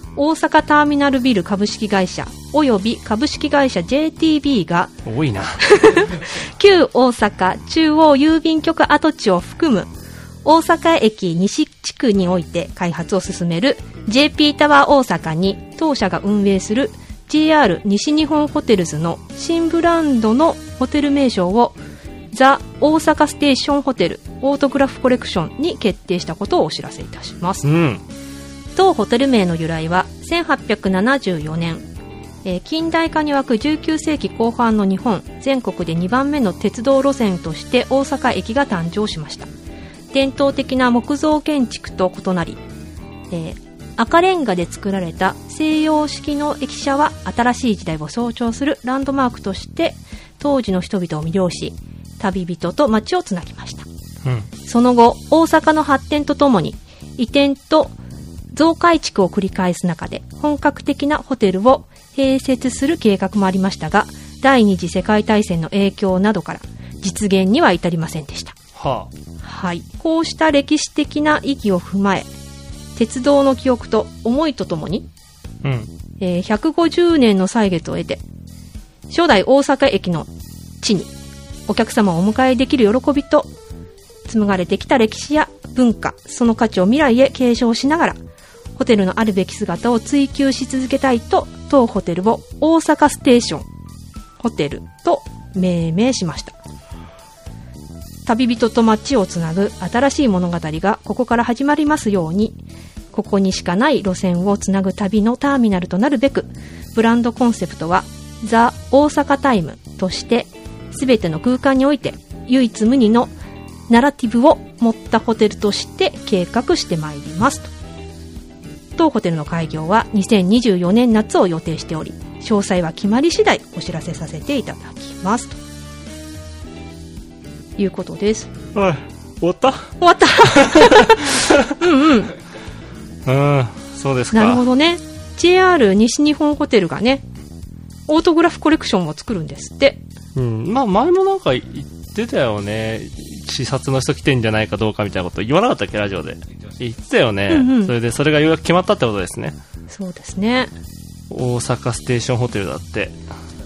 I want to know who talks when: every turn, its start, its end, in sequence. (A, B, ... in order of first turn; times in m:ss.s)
0:00.2-0:04.9 A
0:05.1-0:05.6 B
0:05.6-0:09.9 A
0:10.4-0:21.8 A
0:22.3-0:27.7 A
0:27.6-0:28.0 B
0:28.8-0:31.8 A
0:32.4-0:39.5 A
0:40.1-0:42.6 A
0:43.3-0:53.9 A
0:54.7-0:58.0 A
0:58.5-1:08.6 A
1:08.8-1:09.1 B
1:09.4-1:12.3 A
1:13.0-1:15.1 A
1:15.6-1:15.9 B
1:16.2-1:18.2 A
1:19.1-1:20.3 A
1:20.8-1:21.1 A
1:21.7-1:23.5 A
1:24.3-1:28.2 A
1:28.8-1:33.7 A
1:34.4-1:36.6 A
1:38.3-1:42.6 A
1:43.1-1:53.3 A
1:53.9-1:57.7 A
1:59.0-2:05.6 A
2:07.8-2:08.5 A
2:08.8-2:10.0 B
2:10.0-2:12.3 A
2:10.5-2:11.7 B
2:13.3-2:14.6 B
2:14.3-2:17.2 A
2:18.1-2:20.0 A
2:20.4-2:29.6 B
2:27.5-2:27.9 A
2:29.9-2:30.7 A
2:31.3-2:33.2 B